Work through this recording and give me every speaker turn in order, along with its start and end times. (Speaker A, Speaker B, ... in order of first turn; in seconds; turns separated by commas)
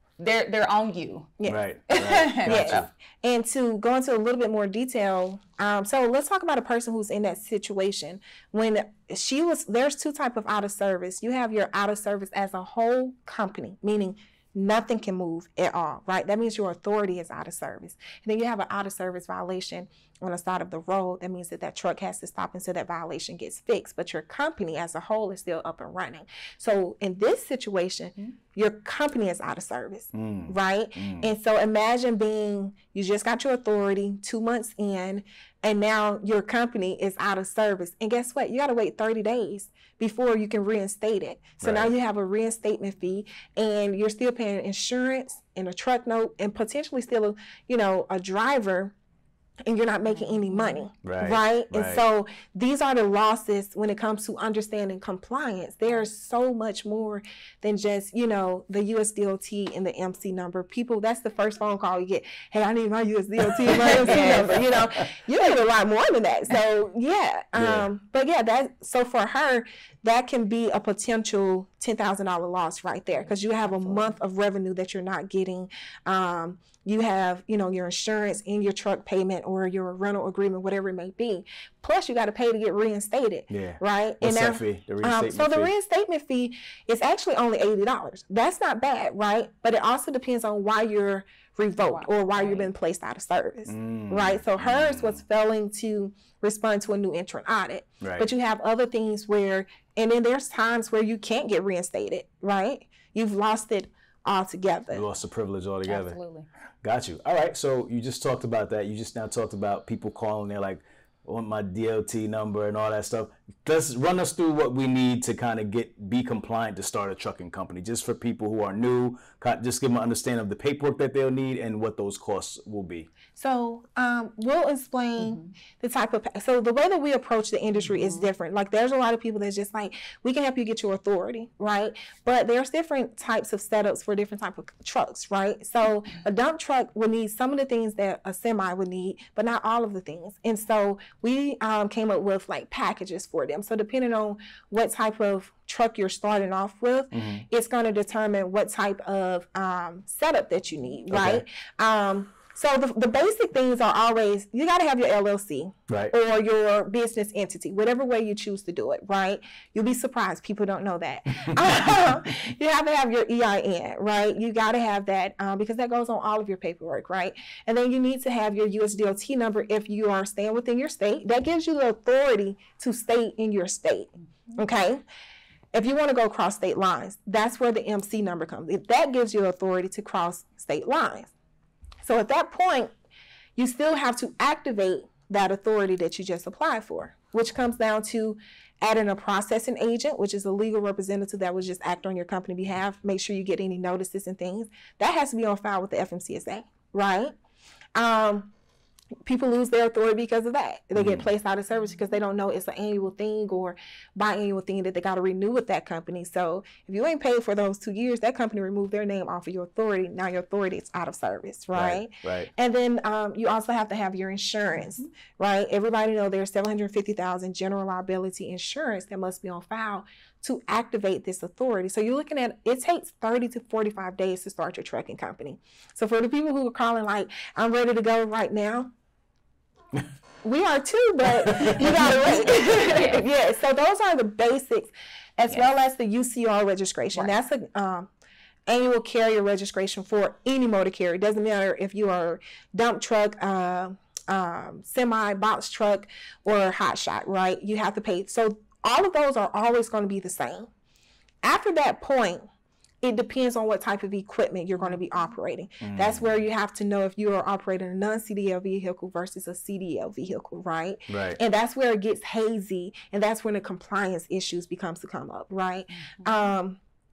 Speaker A: 0.2-1.3, Speaker B: 1.5-2.9, Speaker A: 1.9-2.9, Speaker C: 2.4-48.9, Speaker B: 30.1-31.3, Speaker B: 41.6-41.9, Speaker C: 49.7-105.1, Speaker A: 50.1-50.8, Speaker B: 51.0-52.0, Speaker A: 63.6-64.7, Speaker B: 64.3-65.0, Speaker B: 67.5-67.9, Speaker A: 73.2-74.1, Speaker B: 83.5-85.7, Speaker A: 91.8-92.7, Speaker B: 93.7-95.2, Speaker B: 98.0-98.3, Speaker B: 104.9-106.2, Speaker A: 105.9-106.5, Speaker B: 106.8-123.1, Speaker C: 123.3-175.0, Speaker A: 125.2-125.5, Speaker A: 127.8-128.3, Speaker B: 147.1-147.4, Speaker B: 151.1-151.4, Speaker B: 155.9-156.1, Speaker C: 175.7-181.3, Speaker C: 182.0-182.9, Speaker C: 183.6-197.3, Speaker C: 197.9-198.5, Speaker C: 199.2-228.9, Speaker B: 200.9-201.3, Speaker B: 211.7-212.5, Speaker C: 230.4-238.1, Speaker B: 231.4-231.9, Speaker A: 232.1-233.3, Speaker C: 238.7-250.7, Speaker C: 251.4-252.5, Speaker C: 253.0-266.8, Speaker B: 255.8-256.3, Speaker B: 261.1-261.4, Speaker A: 265.9-266.3